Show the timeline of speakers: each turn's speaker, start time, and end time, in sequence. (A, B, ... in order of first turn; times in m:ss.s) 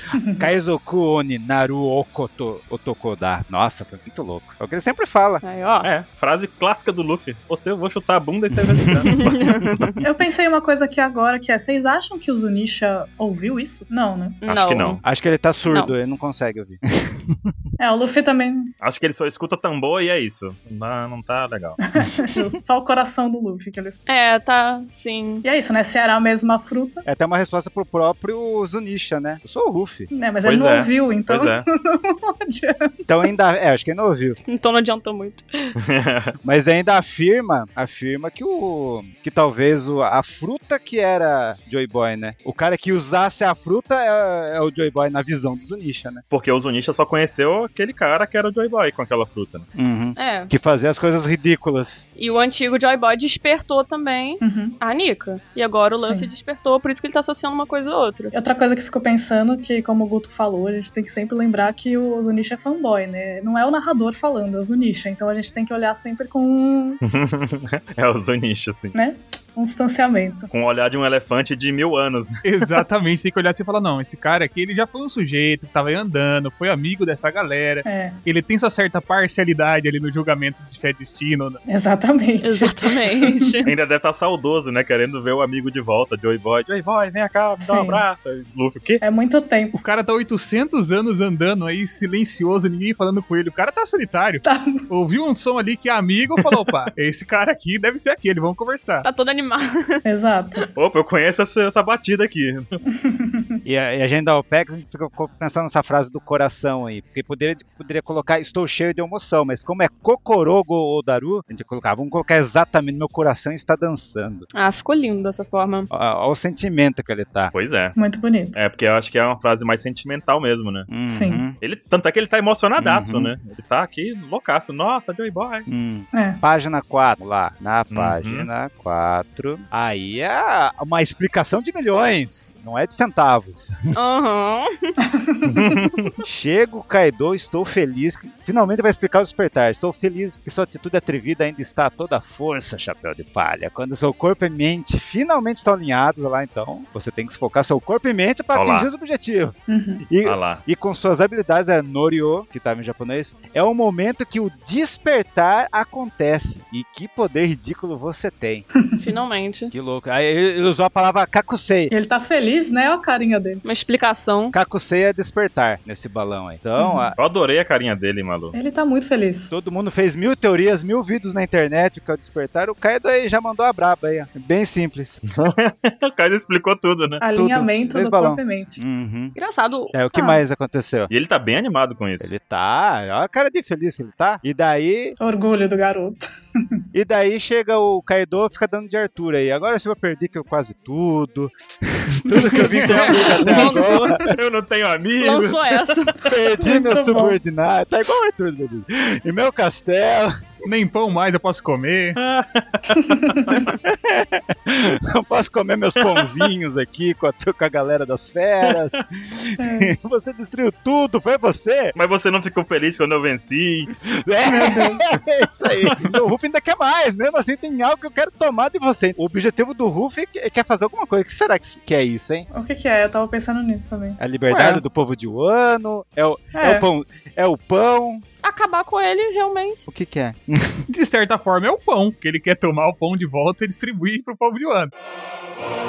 0:00.1-0:00.5 A
0:00.3-0:05.4 B
0:05.4-0:05.9 C
0:05.8-0:10.0 D
0:09.1-0:09.8 C
0:10.0-0:14.4 A
0:14.4-0:15.0 C
0:14.4-0:15.0 D
0:15.0-0:17.5 B
0:15.7-0:15.9 C
0:17.8-0:18.7 A
0:18.8-0:21.8 D
0:21.9-0:24.0 A
0:24.1-0:25.4 C
0:25.4-0:27.0 A
0:27.0-0:30.1 B
0:30.1-0:33.1 A
0:30.4-0:31.6 D
0:33.1-0:34.4 B
0:34.5-0:35.7 C
0:35.8-0:36.3 D
0:36.4-0:46.2 B
0:46.3-0:49.7 D
0:49.7-0:52.0 B
0:50.2-0:50.5 C
0:52.2-0:58.3 C
0:54.4-0:54.8 A
0:56.0-0:56.3 A
0:58.3-1:07.0 A
1:07.0-1:08.9 D
1:08.9-1:10.5 A
1:10.5-1:12.7 D
1:12.4-1:21.6 E
1:17.8-1:18.2 A
1:21.7-1:23.5 A
1:22.4-1:23.7 C
1:23.6-1:29.0 D
1:27.6-1:28.0 A
1:29.0-1:29.8 A
1:29.7-1:39.0 E
1:34.4-1:34.9 A
1:39.0-1:40.0 C
1:40.0-1:40.6 A
1:40.7-1:42.6 D
1:43.0-1:43.6 A
1:43.6-1:54.4 B
1:54.5-1:55.9 C
1:55.9-1:57.5 B
1:57.5-1:58.0 D
1:58.0-1:58.6 A
1:58.5-2:00.9 D
2:00.9-2:01.6 B
2:01.1-2:01.4 A
2:01.6-2:05.6 D
2:02.8-2:03.3 B
2:05.7-2:13.8 B
2:06.1-2:06.4 A
2:07.9-2:08.5 D
2:13.9-2:14.9 C
2:15.1-2:15.7 A
2:15.5-2:16.1 D
2:16.2-2:38.6 B
2:28.5-2:28.9 D
2:29.7-2:30.0 A
2:30.2-2:30.6 D
2:39.0-2:39.7 C
2:39.7-2:41.9 B
2:41.9-2:43.6 A
2:43.6-2:44.5 C
2:44.5-2:47.2 B
2:46.8-2:47.1 A
2:47.2-2:48.5 D
2:48.5-2:49.5 A
2:49.5-2:55.2 B
2:55.4-2:57.2 D
2:57.2-2:58.8 A
2:57.3-2:59.3 B
2:59.3-2:59.9 C
2:59.9-3:01.1 B
3:00.1-3:00.4 A
3:01.1-3:02.3 D
3:02.2-3:05.2 B
3:05.2-3:06.2 A
3:06.9-3:14.2 B
3:12.3-3:13.0 E
3:12.7-3:14.2 C
3:14.2-3:16.2 D
3:15.2-3:16.2 C
3:16.3-3:20.5 B
3:16.6-3:17.4 A
3:20.6-3:22.2 E
3:22.2-3:23.7 D
3:22.9-3:23.4 A
3:23.8-3:31.9 B
3:26.0-3:26.4 D
3:28.6-3:29.0 D
3:29.6-3:29.9 A
3:31.9-3:33.9 D
3:34.1-3:42.5 B
3:34.4-3:35.0 A
3:42.5-3:44.2 A
3:44.2-3:48.2 B
3:44.5-3:44.8 C
3:46.5-3:46.8 A
3:48.4-3:49.8 C
3:49.9-3:50.8 B
3:50.9-3:54.9 E